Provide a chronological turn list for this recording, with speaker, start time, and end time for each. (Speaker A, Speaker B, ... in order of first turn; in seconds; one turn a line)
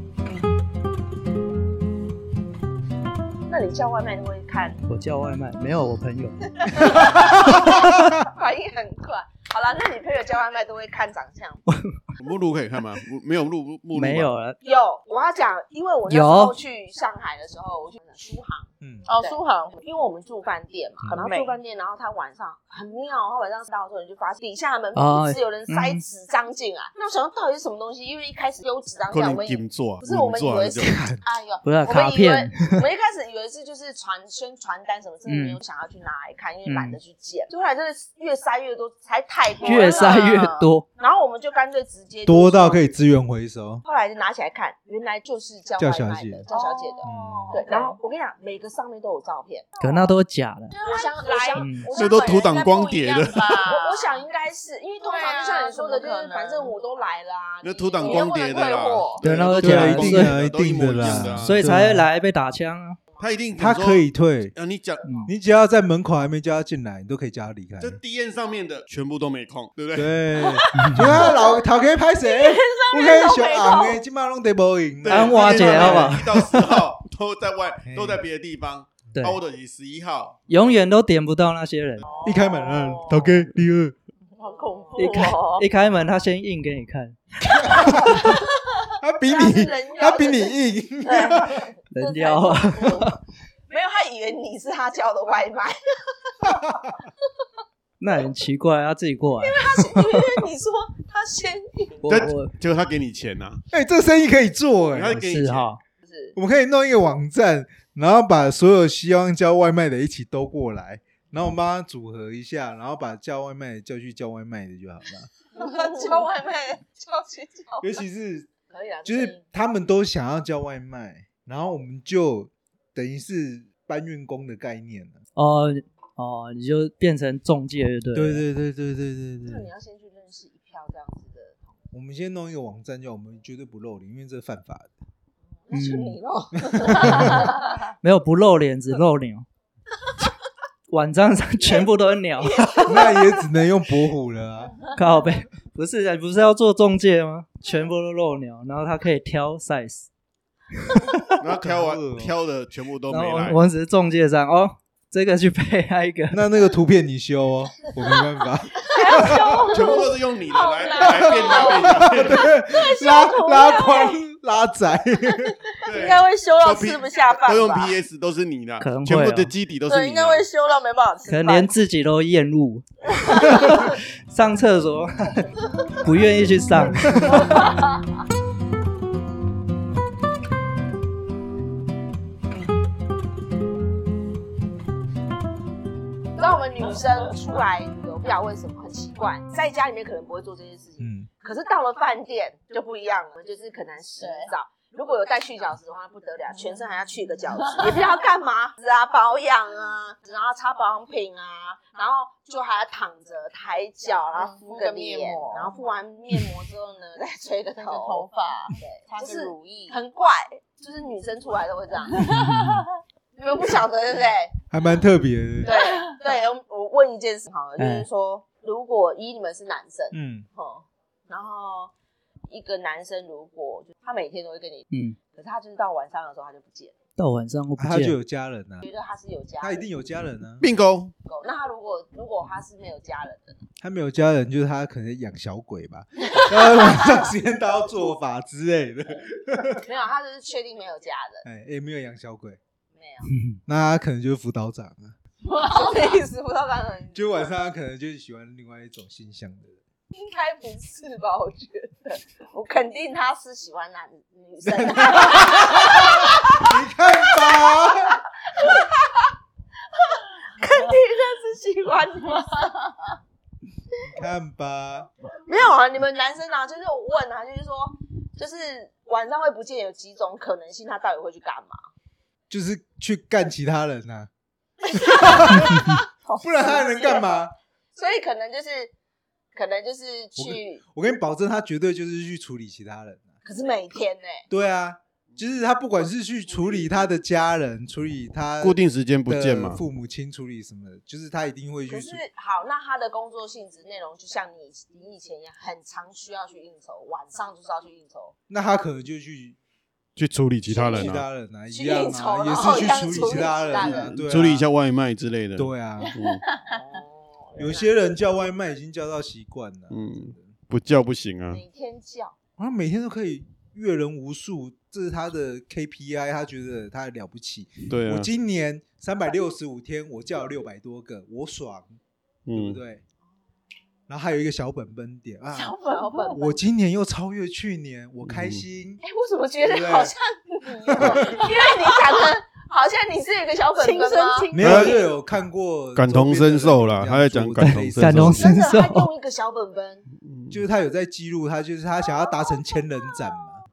Speaker A: 3.5-4.8
Speaker B: 4.9-7.1
Speaker A: 6.7-11.6
Speaker C: 6.9-8.1
Speaker B: 11.7-12.0
Speaker D: 12.2-14.3
Speaker B: 13.9-14.6
Speaker A: 14.6-40.4
Speaker B: 16.1-16.6
Speaker C: 18.8-19.1
Speaker E: 19.1-19.8
Speaker E: 21.1-21.5
Speaker B: 24.9-26.0
Speaker D: 29.1-31.0
Speaker C: 30.8-31.2
Speaker B: 31.6-32.8
Speaker B: 35.3-35.6
Speaker B: 36.6-37.0
Speaker B: 39.6-40.9
Speaker E: 39.6-40.7
Speaker A: 41.0-42.8
Speaker C: 42.2-43.8
Speaker A: 43.8-49.7
Speaker C: 45.8-46.4
Speaker E: 46.5-48.0
Speaker C: 47.0-47.6
Speaker E: 49.8-50.1
Speaker B: 49.8-50.7
Speaker E: 50.7-54.2
Speaker A: 50.8-52.7
Speaker B: 51.6-51.9
Speaker D: 51.9-53.6
Speaker A: 53.6-59.2
Speaker E: 55.0-56.7
Speaker D: 57.6-61.7
Speaker E: 58.0-58.4
Speaker B: 59.2-60.4
Speaker C: 59.6-62.1
Speaker B: 61.4-63.0
Speaker D: 63.2-65.0
Speaker C: 63.6-64.5
Speaker B: 65.0-65.3
Speaker C: 65.2-68.0
Speaker D: 67.8-70.2
Speaker C: 69.9-76.2
Speaker E: 70.3-71.7
Speaker B: 70.7-71.3
Speaker E: 72.2-74.0
Speaker D: 75.0-80.4
Speaker B: 75.1-76.8
Speaker C: 77.9-78.2
Speaker B: 80.5-82.1
Speaker E: 82.0-83.4
Speaker C: 82.2-83.9
Speaker E: 84.4-85.7
Speaker B: 85.0-88.1
Speaker C: 87.4-88.4
Speaker A: 87.8-88.3
Speaker C: 89.0-91.7
Speaker A: 89.2-93.1
Speaker B: 91.9-93.2
Speaker A: 93.7-95.8
Speaker C: 96.5-96.8
Speaker B: 98.0-100.4
Speaker A: 99.4-102.3
Speaker B: 102.0-102.5
Speaker D: 102.1-103.6
Speaker C: 103.7-105.2
Speaker D: 104.9-105.7
Speaker B: 105.1-105.8
Speaker A: 106.0-106.3
Speaker C: 106.3-115.3
Speaker A: 115.5-118.0
Speaker C: 117.8-118.5
Speaker A: 118.7-119.4
Speaker C: 119.0-125.2
Speaker B: 125.3-128.4
Speaker C: 128.1-129.7
Speaker A: 129.4-131.7
Speaker C: 131.9-134.9
Speaker A: 135.7-137.8
Speaker B: 135.7-136.2
Speaker C: 136.7-137.5
Speaker B: 137.0-139.4
Speaker B: 140.9-142.9
Speaker A: 142.6-143.3
Speaker C: 142.7-144.8
Speaker B: 144.9-150.1
Speaker B: 150.8-151.4
Speaker D: 151.4-153.6
Speaker C: 151.6-152.3
Speaker B: 153.1-156.4
Speaker C: 156.3-159.8
Speaker E: 158.9-164.2
Speaker D: 159.3-162.5
Speaker C: 161.0-165.6
Speaker E: 165.7-168.0
Speaker D: 165.8-170.5
Speaker B: 168.8-169.5
Speaker E: 169.9-171.7
Speaker B: 171.3-177.7
Speaker E: 173.1-173.6
Speaker C: 177.1-177.3
Speaker E: 177.4-177.7
Speaker A: 186.3-212.4
Speaker C: 191.0-191.3
Speaker E: 194.2-194.5
Speaker E: 196.5-196.8
Speaker E: 197.7-198.0
Speaker E: 204.4-205.8
Speaker E: 207.8-209.9
Speaker B: 212.2-212.8
Speaker E: 212.3-212.8
Speaker A: 213.3-214.5
Speaker C: 214.7-215.7
Speaker E: 215.6-216.2
Speaker A: 215.6-221.9
Speaker B: 217.8-218.1
Speaker C: 220.1-220.5
Speaker A: 222.5-226.9
Speaker B: 224.9-225.2
Speaker B: 227.2-228.2
Speaker C: 227.8-228.9
Speaker A: 228.8-229.8
Speaker C: 229.6-230.7
Speaker D: 230.6-231.1
Speaker A: 231.2-233.6
Speaker C: 233.8-239.8
Speaker A: 239.8-241.4
Speaker C: 241.4-242.6
Speaker A: 242.9-243.3
Speaker B: 243.3-243.6
Speaker C: 243.7-245.2
Speaker A: 245.4-247.3
Speaker E: 245.7-246.0
Speaker C: 247.1-249.8
Speaker A: 250.1-256.7
Speaker C: 254.6-258.2
Speaker A: 257.3-259.3
Speaker A: 260.1-262.7
Speaker C: 264.0-265.1
Speaker A: 265.4-271.8
Speaker C: 272.5-274.3
Speaker A: 274.9-275.9
Speaker C: 274.9-277.5
Speaker E: 275.1-275.6
Speaker A: 276.6-277.2
Speaker A: 277.9-278.9
Speaker A: 279.5-280.8
Speaker C: 280.4-283.3
Speaker A: 283.4-284.4
Speaker C: 284.5-292.2
Speaker D: 288.6-289.8
Speaker A: 291.9-298.3
Speaker C: 298.5-299.6
Speaker D: 300.1-301.2
Speaker C: 300.7-304.6
Speaker A: 301.7-304.1
Speaker D: 303.8-306.4
Speaker C: 305.6-306.2
Speaker E: 306.1-306.8
Speaker A: 306.7-307.9
Speaker C: 307.6-310.5
Speaker D: 309.9-311.6
Speaker A: 311.5-312.4
Speaker C: 312.6-322.0
Speaker D: 317.9-318.3
Speaker D: 322.4-322.8
Speaker C: 322.5-323.0
Speaker C: 324.1-325.8
Speaker E: 325.5-326.4
Speaker A: 325.8-326.5
Speaker C: 326.3-329.0
Speaker D: 328.2-328.6
Speaker A: 329.0-334.5
Speaker C: 329.6-330.1
Speaker C: 330.9-331.5
Speaker E: 331.2-332.3
Speaker E: 333.8-335.1
Speaker C: 334.5-338.4
Speaker D: 334.6-335.0
Speaker D: 335.9-338.4
Speaker B: 337.6-339.1
Speaker A: 338.3-340.1
Speaker D: 340.2-340.6
Speaker C: 340.5-343.6